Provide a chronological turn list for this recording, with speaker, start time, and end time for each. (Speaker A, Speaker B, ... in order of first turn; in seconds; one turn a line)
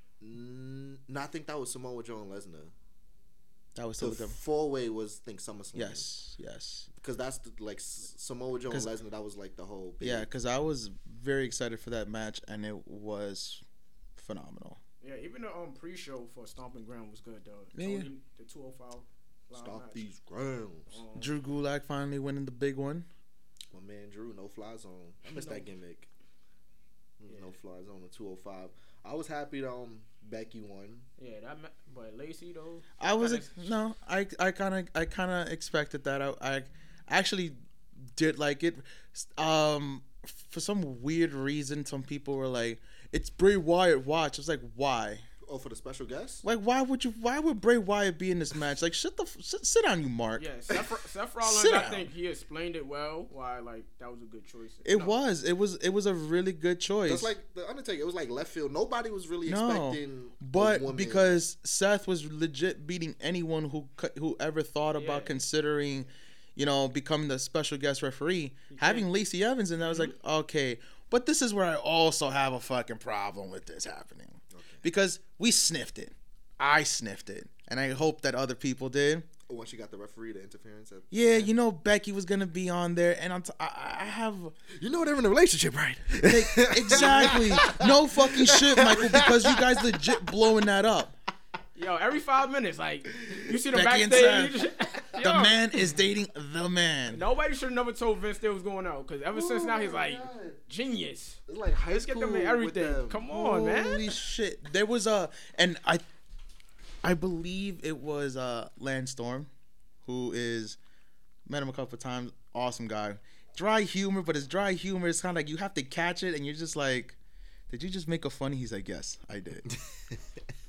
Speaker A: 0.2-2.7
Speaker B: 3.7-4.4
Speaker A: 4.0-6.1
Speaker B: 5.7-6.9
Speaker A: 7.0-10.3
Speaker B: 10.0-13.6
Speaker B: 14.2-14.8
Speaker C: 15.0-20.1
Speaker B: 17.7-18.1
Speaker A: 19.5-21.0
Speaker C: 20.9-21.4
Speaker B: 21.1-23.1
Speaker A: 23.7-26.1
Speaker C: 25.3-25.6
Speaker A: 27.2-31.1
Speaker C: 31.2-33.7
Speaker B: 33.0-45.2
Speaker A: 45.4-46.4
Speaker B: 46.4-50.5
Speaker C: 50.4-55.1
Speaker B: 51.4-52.1
Speaker B: 54.8-57.3
Speaker A: 57.0-61.4
Speaker B: 59.5-79.3
Speaker C: 65.0-65.3
Speaker C: 68.7-69.1
Speaker C: 69.8-70.1
Speaker A: 74.5-74.8
Speaker A: 79.5-81.5
Speaker B: 81.1-84.5
Speaker A: 84.8-89.9
Speaker B: 86.2-91.1
Speaker C: 86.9-87.6
Speaker C: 91.7-95.7
Speaker A: 93.1-93.5
Speaker B: 93.7-94.6
Speaker B: 95.2-97.2
Speaker C: 97.1-101.4
Speaker A: 99.3-100.6
Speaker A: 101.5-103.2
Speaker C: 102.1-104.0
Speaker B: 103.3-106.0
Speaker B: 107.0-109.5
Speaker B: 110.0-110.8
Speaker B: 111.5-117.2
Speaker B: 117.7-119.7
Speaker A: 119.7-120.3